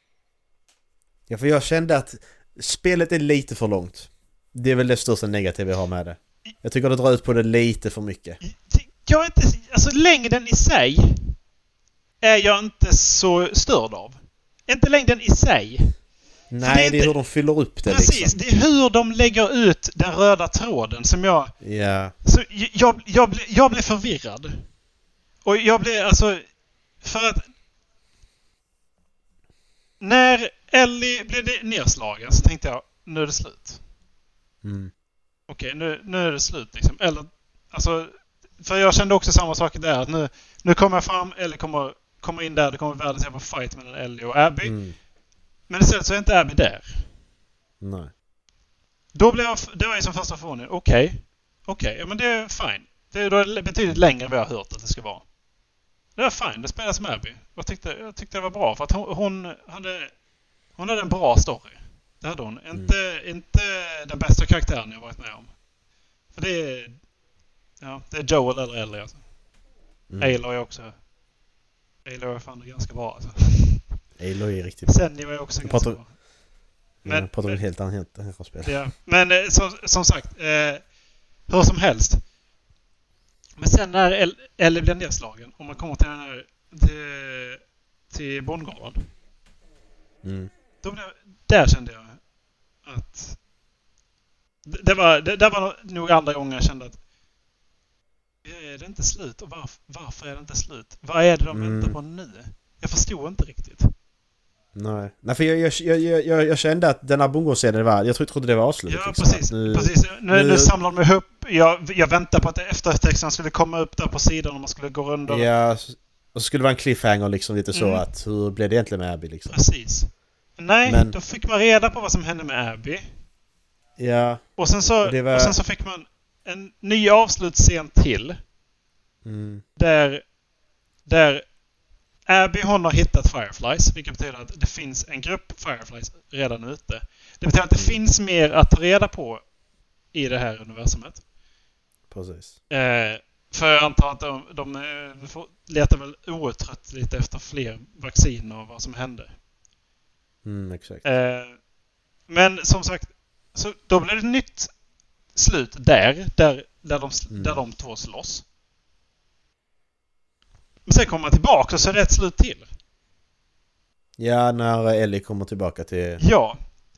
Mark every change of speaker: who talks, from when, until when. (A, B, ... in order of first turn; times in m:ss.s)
0:01.3-0:08.4 A
0:08.4-0:11.4 B
0:12.2-0:15.9 B
0:16.5-0:18.4 A
0:16.6-0:17.1 B
0:17.8-0:21.6 B
0:21.6-0:22.1 A
0:22.2-0:24.7 B
0:25.4-0:26.4 B
0:27.0-0:27.5 B
0:30.0-0:33.8 B
0:34.6-0:34.9 A
0:35.5-0:44.8 B
0:44.6-0:45.0 A
0:45.7-0:47.1 B
0:47.8-0:48.1 A
0:49.2-0:55.3 B
0:56.2-1:00.1 B
1:00.8-1:05.6 B
1:06.3-1:07.0 B
1:07.8-1:09.2 B
1:10.1-1:10.4 A
1:10.2-1:11.0 B
1:12.0-1:13.9 B
1:14.2-1:16.1 A
1:14.9-1:16.1 B
1:17.0-1:17.7 B
1:17.0-1:18.7 A
1:18.6-1:20.8 B
1:21.5-1:22.2 B
1:23.6-1:29.1 B
1:30.2-1:30.5 A
1:30.8-1:32.2 B
1:32.8-1:33.4 B
1:34.6-1:37.0 B
1:38.4-1:43.9 B
1:41.5-1:42.0 A
1:44.8-1:50.7 A
1:48.9-1:55.5 B
1:55.3-1:59.6 A
1:57.7-1:58.0 B
1:59.5-2:03.1 B
2:00.9-2:01.2 A
2:04.0-2:04.4 A
2:04.6-2:08.4 B
2:05.0-2:05.6 A
2:09.2-2:09.6 A
2:09.8-2:10.2 B
2:11.1-2:11.4 B
2:12.3-2:19.4 B
2:20.1-2:21.2 B
2:22.1-2:22.6 A
2:22.7-2:29.4 B
2:30.4-2:31.1 A
2:31.0-2:31.6 B
2:32.3-2:34.7 B
2:35.4-2:38.4 B
2:37.3-2:37.6 A
2:40.9-2:42.7 B
2:44.2-2:46.2 A
2:46.2-2:46.6 B